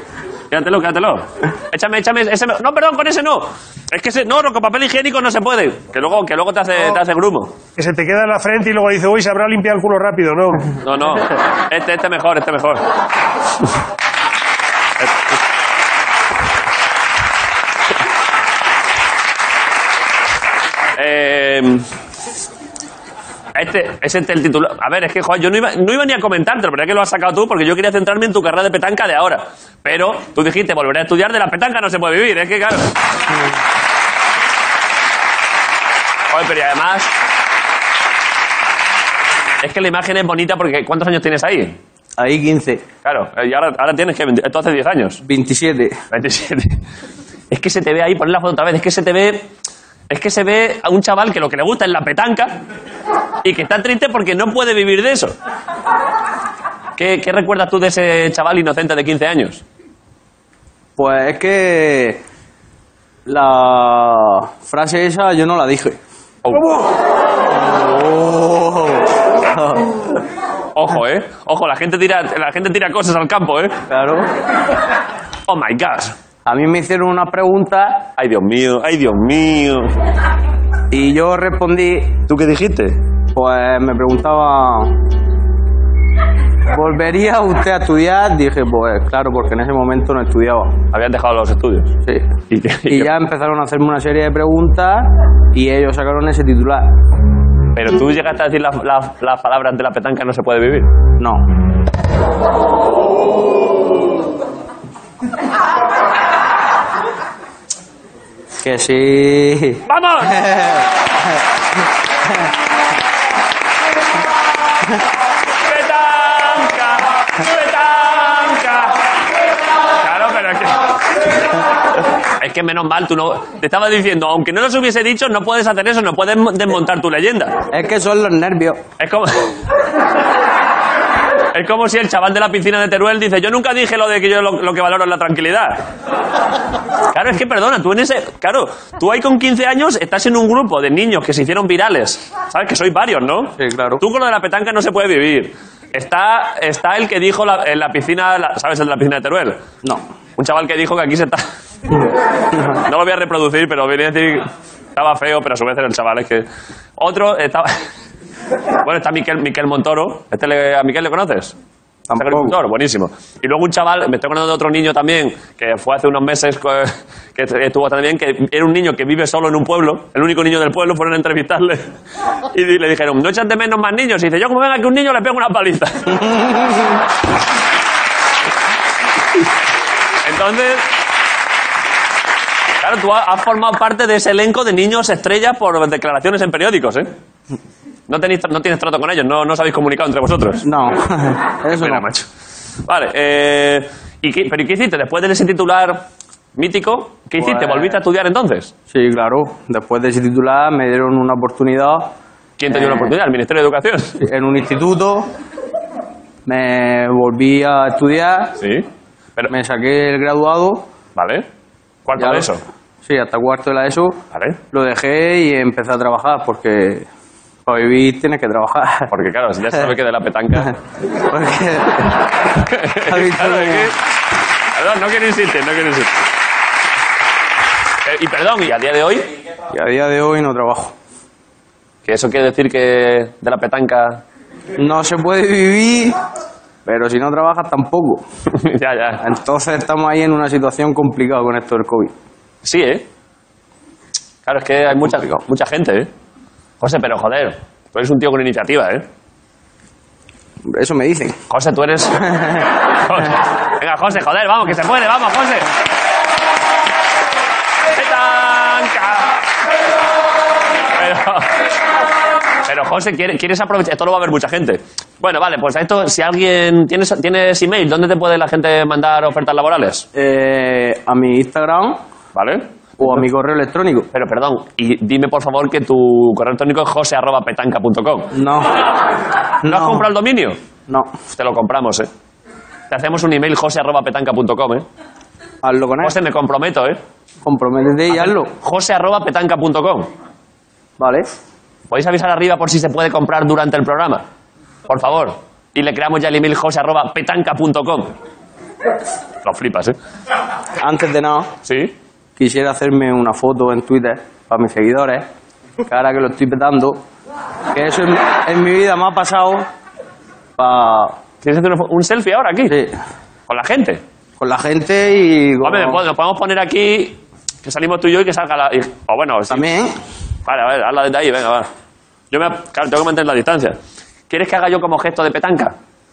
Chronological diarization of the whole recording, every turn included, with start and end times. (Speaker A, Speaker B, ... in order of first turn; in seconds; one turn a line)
Speaker A: 0.5-7.5
Speaker B: 7.8-10.8
Speaker A: 10.8-12.8
Speaker A: 21.0-21.9
Speaker A: 23.6-32.9
Speaker A: 36.3-37.1
Speaker A: 39.6-41.8
Speaker C: 42.2-42.8
Speaker A: 43.0-45.2
Speaker C: 45.2-46.0
Speaker A: 46.1-46.8
Speaker A: 47.5-49.5
Speaker A: 50.1-52.6
Speaker A: 53.4-55.4
Speaker A: 57.0-59.6
Speaker C: 61.0-62.2
Speaker C: 63.3-66.0
Speaker C: 67.5-70.0
Speaker A: 70.7-73.8
Speaker C: 73.9-74.3
Speaker A: 75.5-76.2
Speaker C: 76.5-78.1
Speaker A: 78.2-79.9
Speaker C: 80.9-82.2
Speaker A: 82.3-83.0
Speaker C: 83.3-85.0
Speaker C: 86.7-90.8
Speaker A: 90.9-92.0
Speaker A: 92.5-93.1
Speaker C: 92.9-96.9
Speaker A: 97.7-100.9
Speaker C: 101.2-101.4
Speaker C: 108.6-110.9
Speaker A: 109.9-110.3
Speaker A: 115.6-119.0
Speaker A: 120.0-120.8
Speaker A: 122.4-127.6
Speaker C: 127.7-128.8
Speaker A: 129.0-129.5
Speaker A: 131.5-135.8
Speaker A: 137.1-149.6
Speaker C: 143.6-144.0
Speaker A: 150.4-151.4
Speaker A: 152.8-156.5
Speaker A: 157.0-157.8
Speaker A: 158.8-161.5
Speaker C: 162.1-162.6
Speaker A: 162.2-171.9
Speaker A: 172.5-176.2
Speaker C: 176.2-176.9
Speaker A: 180.2-180.9
Speaker A: 182.8-187.1
Speaker A: 188.1-190.7
Speaker C: 190.6-192.2
Speaker A: 191.7-192.2
Speaker A: 192.8-196.1
Speaker A: 196.6-198.7
Speaker C: 197.4-198.0
Speaker C: 198.9-202.1
Speaker A: 202.6-204.2
Speaker C: 202.7-203.1
Speaker C: 204.2-205.3
Speaker C: 206.5-208.5
Speaker A: 208.6-208.9
Speaker C: 209.5-210.8
Speaker A: 211.2-211.4
Speaker A: 212.1-212.6
Speaker C: 212.2-212.5
Speaker C: 213.0-214.2
Speaker A: 214.3-214.6
Speaker C: 214.7-217.1
Speaker C: 217.7-219.1
Speaker A: 219.1-220.7
Speaker C: 221.2-222.2
Speaker A: 222.6-223.9
Speaker C: 223.0-223.9
Speaker A: 224.7-226.3
Speaker A: 228.0-229.3
Speaker C: 229.7-230.9
Speaker A: 232.1-234.2
Speaker C: 234.8-236.2
Speaker C: 236.9-238.2
Speaker A: 238.5-239.2
Speaker C: 239.2-242.1
Speaker A: 242.6-243.1
Speaker A: 244.4-246.1
Speaker C: 245.1-245.4
Speaker A: 246.8-249.1
Speaker C: 250.7-251.4
Speaker A: 251.5-252.3
Speaker A: 252.9-255.7
Speaker A: 257.9-259.4
Speaker A: 261.0-261.5
Speaker A: 262.6-270.1
Speaker C: 270.1-272.0
Speaker A: 272.4-273.2
Speaker C: 273.0-274.1
Speaker A: 274.1-278.3
Speaker C: 278.3-278.8
Speaker C: 279.6-280.1
Speaker A: 279.6-280.6
Speaker A: 281.3-282.1
Speaker A: 282.9-284.9
Speaker C: 285.6-286.2
Speaker A: 286.0-287.0
Speaker C: 287.4-288.5
Speaker A: 288.1-290.1
Speaker C: 291.0-291.3
Speaker A: 291.9-294.2
Speaker A: 294.9-298.1
Speaker A: 299.4-300.0
Speaker C: 300.8-301.5
Speaker A: 301.6-301.9
Speaker C: 302.4-305.3
Speaker C: 305.9-307.0
Speaker C: 307.7-309.7
Speaker C: 310.6-311.2
Speaker A: 311.4-312.7
Speaker C: 312.7-312.9
Speaker A: 313.5-314.0
Speaker C: 314.4-316.0
Speaker A: 315.6-319.7
Speaker C: 319.5-319.9
Speaker A: 320.5-321.7
Speaker A: 322.3-323.8
Speaker A: 324.3-325.7